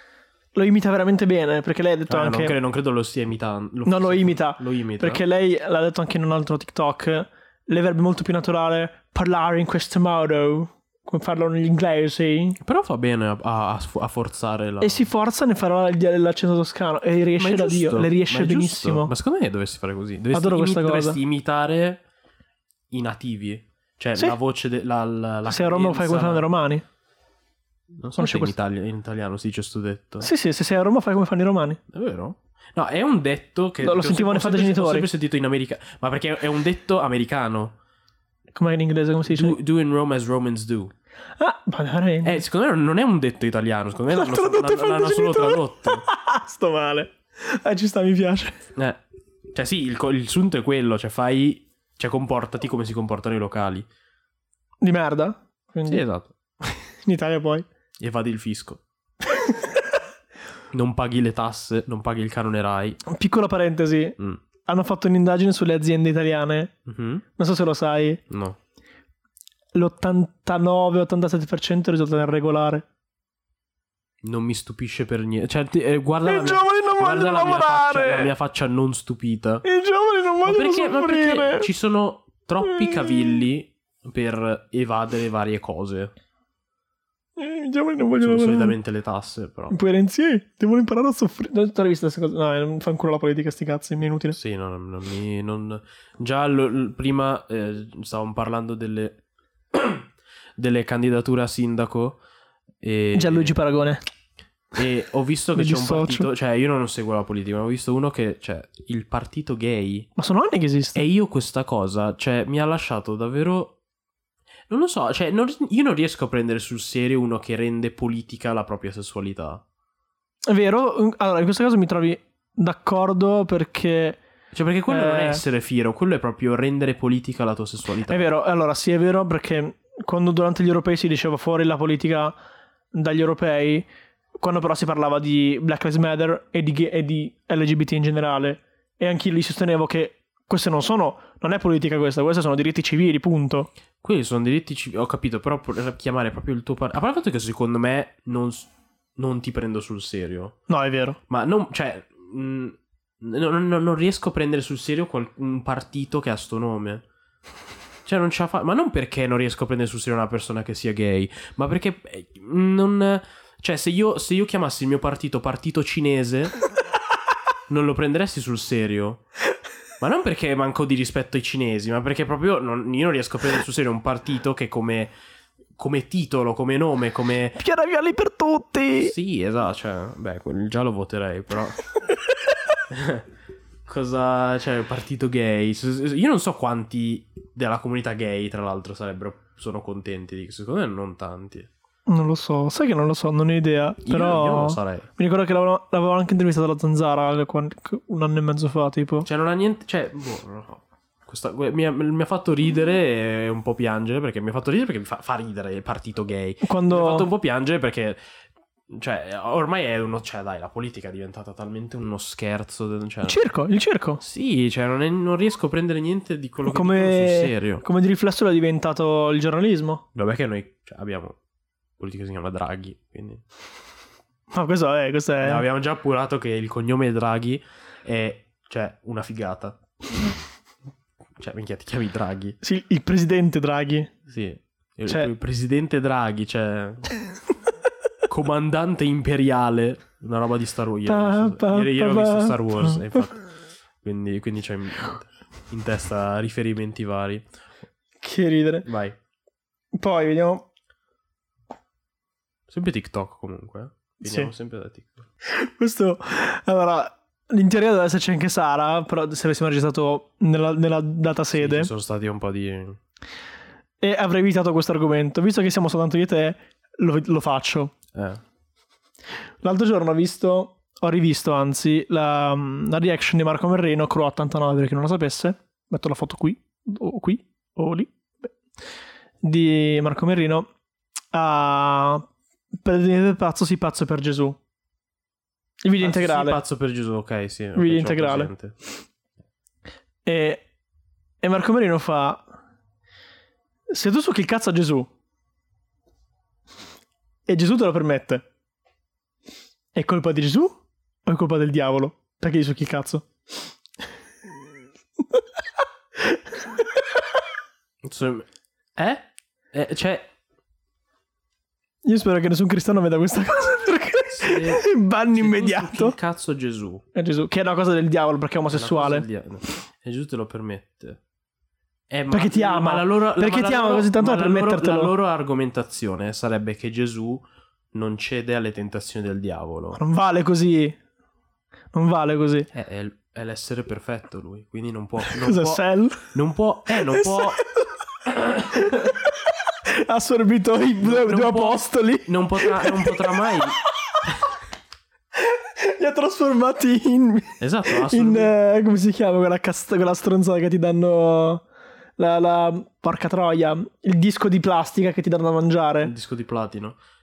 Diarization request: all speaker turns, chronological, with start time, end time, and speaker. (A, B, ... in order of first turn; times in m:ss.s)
0:00.6-0:02.6 A
0:02.1-0:05.2 B
0:03.8-0:12.6 A
0:12.6-0:15.1 B
0:14.8-0:19.1 A
0:17.4-0:22.0 B
0:20.3-0:21.2 A
0:22.9-0:26.5 B
0:25.5-0:26.8 A
0:28.0-0:30.3 B
0:28.2-0:28.5 A
0:30.2-0:31.8 A
0:31.9-0:37.8 B
0:33.8-0:35.1 A
0:38.6-0:39.6 A
0:39.3-0:40.9 B
0:41.4-0:42.4 A
0:42.2-0:46.0 B
0:44.1-0:48.6 A
0:48.8-0:49.0 B
0:49.5-0:53.9 B
0:54.8-0:56.0 A
0:55.9-0:56.3 B
0:57.0-0:57.7 A
0:58.0-0:58.8 B
0:59.4-0:59.7 A
1:00.7-1:03.0 B
1:03.1-1:06.7 A
1:06.9-1:07.2 B
1:07.4-1:08.2 A
1:08.3-1:08.6 B
1:09.8-1:12.8 A
1:14.2-1:19.6 B
1:16.2-1:18.3 A
1:19.6-1:21.7 A
1:20.4-1:26.1 B
1:22.6-1:23.4 A
1:27.4-1:28.8 A
1:28.2-1:29.8 B
1:29.7-1:34.4 A
1:34.4-1:39.2 B
1:39.7-1:42.2 B
1:42.8-1:43.6 B
1:43.2-1:44.0 A
1:44.7-1:50.1 B
1:45.6-1:46.3 A
1:50.2-1:51.0 A
1:51.0-1:53.8 B
1:54.7-1:59.6 B
2:00.5-2:04.2 A
2:04.5-2:08.3 B
2:04.9-2:05.4 A
2:08.1-2:12.4 A
2:12.9-2:13.9 A
2:14.4-2:23.7 A
2:24.0-2:30.6 B
2:30.7-2:31.2 A
2:31.3-2:37.0 B
2:38.0-2:46.6 B
2:47.7-2:49.2 B
2:50.0-2:55.1 B
2:55.8-2:57.6 B
2:57.6-2:59.1 A
2:59.0-3:01.8 B
3:02.9-3:03.3 B
3:03.8-3:11.7 B
3:12.1-3:19.3 A
3:14.0-3:15.1 B
3:19.2-3:28.2 B
3:26.6-3:27.3 A
3:28.9-3:33.4 B
3:33.3-3:34.2 A
3:34.2-3:37.8 B
3:36.7-3:40.0 A
3:40.2-3:41.4 B
3:42.0-3:43.4 B
3:44.5-3:45.6 A
3:45.4-3:49.8 B
3:51.4-3:52.6 B
3:52.6-3:54.1 A
3:54.3-3:57.1 B
3:58.3-4:03.4 B
4:01.1-4:03.2 A
4:04.0-4:07.4 B
4:08.2-4:08.9 A
4:08.8-4:09.2 B
4:09.9-4:10.6 A
4:12.7-4:15.3 B
4:14.2-4:14.5 A
4:15.5-4:21.9 A
4:21.5-4:23.0 B
4:24.0-4:27.9 A
4:28.1-4:28.4 B
4:29.6-4:38.5 A
4:39.4-4:40.7 A
4:41.3-4:42.3 A
4:42.8-4:44.6 A
4:45.8-4:46.6 A
4:46.0-4:48.8 B
4:47.8-4:48.5 A
4:50.2-4:50.6 A
4:51.4-4:52.5 A
4:53.9-4:55.1 A
4:57.5-4:58.4 A
4:59.9-5:03.3 A
5:08.0-5:10.3 B
5:12.0-5:16.2 A
5:14.3-5:17.0 B
5:17.2-5:19.3 A
5:18.7-5:21.2 B
5:22.1-5:30.0 B
5:22.3-5:25.1 A
5:30.0-5:31.0 A
5:31.9-5:32.7 A
5:32.7-5:37.6 B
5:35.3-5:36.3 A
5:37.1-5:37.8 A
5:38.5-5:39.1 A
5:38.6-5:38.9 B
5:39.9-5:43.5 A
5:41.0-5:44.3 B
5:45.4-5:51.6 A
5:47.6-5:48.5 B
5:52.2-5:56.1 A
5:56.0-5:57.0 B